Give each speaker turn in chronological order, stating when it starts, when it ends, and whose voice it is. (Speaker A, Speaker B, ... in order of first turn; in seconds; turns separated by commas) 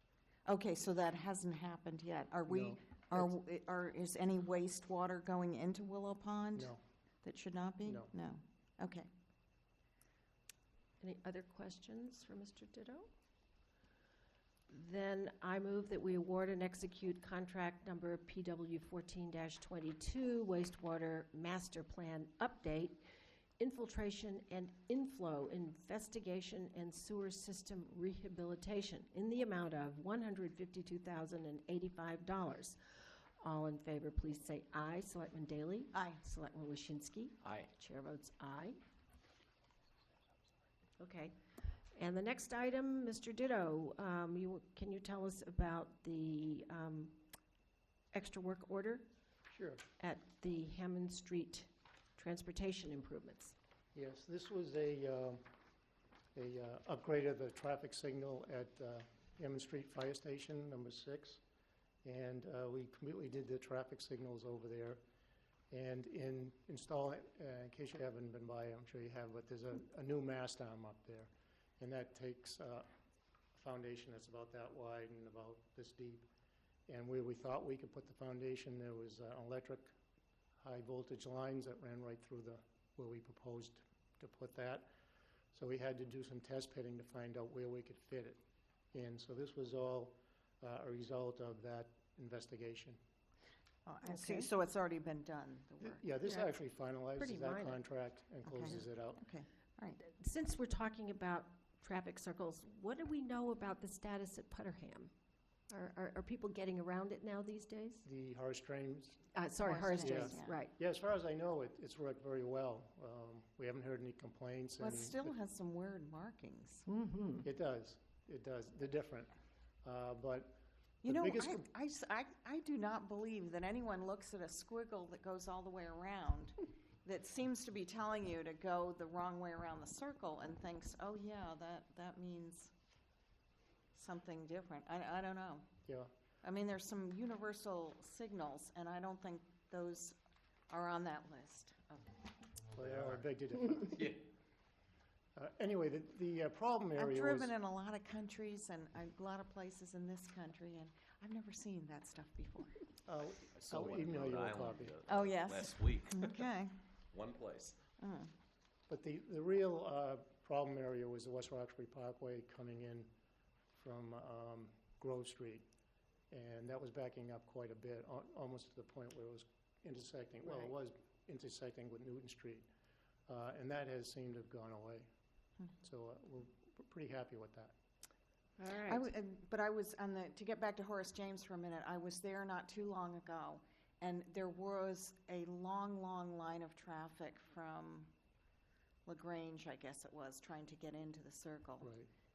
Speaker A: 0.5-9.1, Speaker B: 2.5-3.4, Speaker B: 7.8-8.1, Speaker C: 11.0-13.1, Speaker C: 14.7-23.0, Speaker C: 23.6-32.8, Speaker C: 33.4-38.8, Speaker A: 35.9-36.2, Speaker D: 37.5-37.7, Speaker C: 41.0-41.4, Speaker C: 42.0-47.2, Speaker C: 48.1-49.1, Speaker B: 49.5-49.8, Speaker C: 50.0-53.5, Speaker B: 53.9-55.5, Speaker B: 56.4-61.4, Speaker B: 62.0-65.0, Speaker B: 65.7-72.9, Speaker B: 73.5-76.3, Speaker B: 76.9-80.0, Speaker B: 80.6-84.9, Speaker B: 85.5-88.4, Speaker B: 88.9-93.0, Speaker A: 93.9-96.5, Speaker C: 94.1-94.5, Speaker B: 95.8-99.2, Speaker C: 97.2-97.8, Speaker A: 98.5-100.0, Speaker C: 100.0-105.1, Speaker C: 105.7-108.0, Speaker B: 108.0-109.3, Speaker C: 109.3-110.8, Speaker A: 109.6-110.6, Speaker B: 110.0-115.3, Speaker A: 114.8-116.8, Speaker C: 116.9-117.5, Speaker B: 117.4-119.3, Speaker B: 119.8-121.7, Speaker A: 121.0-132.7, Speaker A: 133.9-135.7, Speaker B: 135.8-136.1, Speaker A: 136.4-140.2, Speaker A: 140.7-142.1, Speaker D: 142.7-143.2, Speaker B: 142.7-144.2, Speaker D: 143.8-144.2, Speaker B: 145.4-147.5, Speaker A: 147.0-152.9, Speaker B: 153.1-155.0, Speaker D: 153.5-156.4, Speaker A: 155.1-156.7, Speaker D: 157.1-157.8, Speaker A: 158.0-158.3, Speaker B: 158.9-163.1, Speaker B: 163.7-165.7, Speaker B: 166.3-172.7, Speaker B: 173.3-175.1, Speaker B: 175.8-177.8, Speaker C: 178.6-179.1, Speaker A: 178.8-188.1, Speaker A: 189.1-191.9, Speaker B: 191.8-192.1